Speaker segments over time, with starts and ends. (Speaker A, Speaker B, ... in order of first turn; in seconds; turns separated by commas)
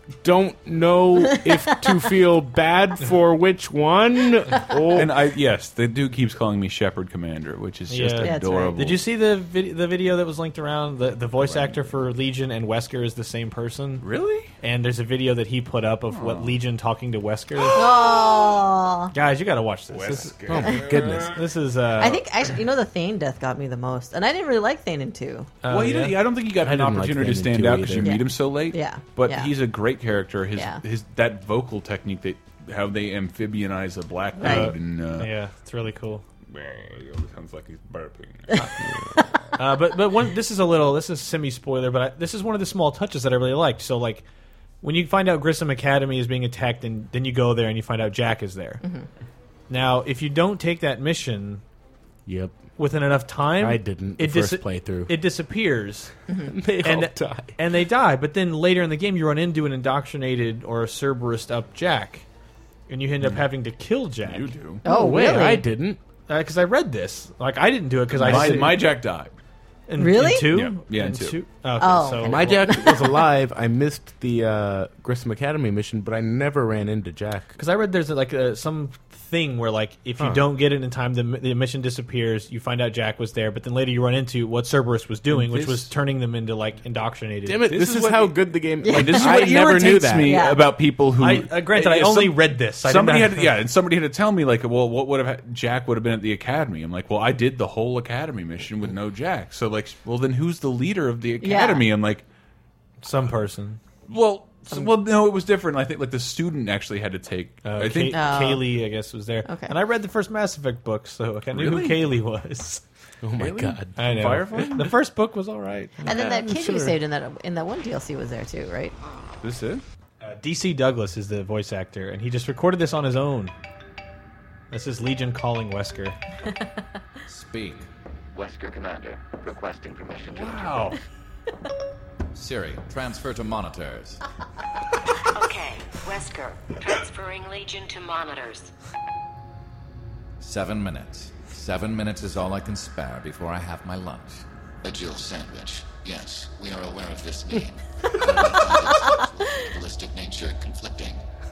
Speaker A: 0.2-5.2, Speaker B: 1.3-1.9, Speaker C: 4.9-9.0, Speaker D: 7.9-14.0, Speaker B: 8.2-8.7, Speaker C: 11.3-11.9, Speaker C: 14.0-14.5, Speaker D: 14.6-17.8, Speaker C: 16.1-16.6, Speaker B: 17.7-19.1, Speaker D: 19.1-22.2, Speaker C: 19.9-21.5, Speaker A: 20.5-21.4, Speaker B: 20.6-21.0, Speaker B: 22.0-25.5, Speaker D: 25.6-26.2, Speaker C: 25.7-35.3, Speaker A: 26.6-28.2, Speaker B: 28.0-29.5, Speaker D: 34.4-36.2, Speaker B: 34.4-34.7, Speaker C: 36.5-38.7, Speaker A: 38.8-39.1, Speaker D: 39.5-44.2, Speaker D: 44.8-48.8, Speaker D: 49.7-51.6, Speaker A: 52.2-52.6, Speaker D: 52.8-56.1, Speaker A: 53.6-55.1, Speaker B: 56.3-56.5, Speaker A: 56.4-57.6, Speaker D: 56.8-62.2, Speaker D: 62.9-64.5, Speaker C: 64.2-64.8, Speaker B: 64.8-65.6, Speaker A: 64.8-66.0, Speaker D: 66.3-68.8, Speaker C: 68.2-69.3, Speaker A: 68.2-68.7, Speaker D: 69.9-72.6, Speaker B: 70.0-70.5, Speaker C: 70.5-71.4, Speaker B: 71.8-73.2, Speaker A: 72.2-77.5, Speaker D: 77.6-87.7, Speaker A: 85.3-85.8, Speaker A: 87.5-90.4, Speaker C: 87.7-88.3, Speaker B: 88.8-90.7, Speaker C: 88.9-102.2, Speaker D: 91.2-93.5, Speaker B: 101.4-101.8, Speaker D: 103.0-103.8, Speaker C: 104.1-108.3, Speaker D: 107.6-112.8, Speaker B: 108.1-108.8, Speaker B: 109.4-109.7, Speaker C: 111.5-112.1, Speaker A: 113.2-114.7, Speaker C: 113.4-114.9, Speaker D: 114.0-116.1, Speaker A: 116.0-117.0, Speaker B: 116.0-118.9, Speaker C: 119.4-119.8, Speaker D: 120.2-123.5, Speaker D: 124.7-126.2, Speaker E: 127.2-127.9, Speaker F: 128.3-130.9, Speaker D: 130.3-131.0, Speaker E: 132.3-134.2, Speaker G: 135.3-138.7, Speaker E: 140.4-144.4, Speaker F: 144.8-151.2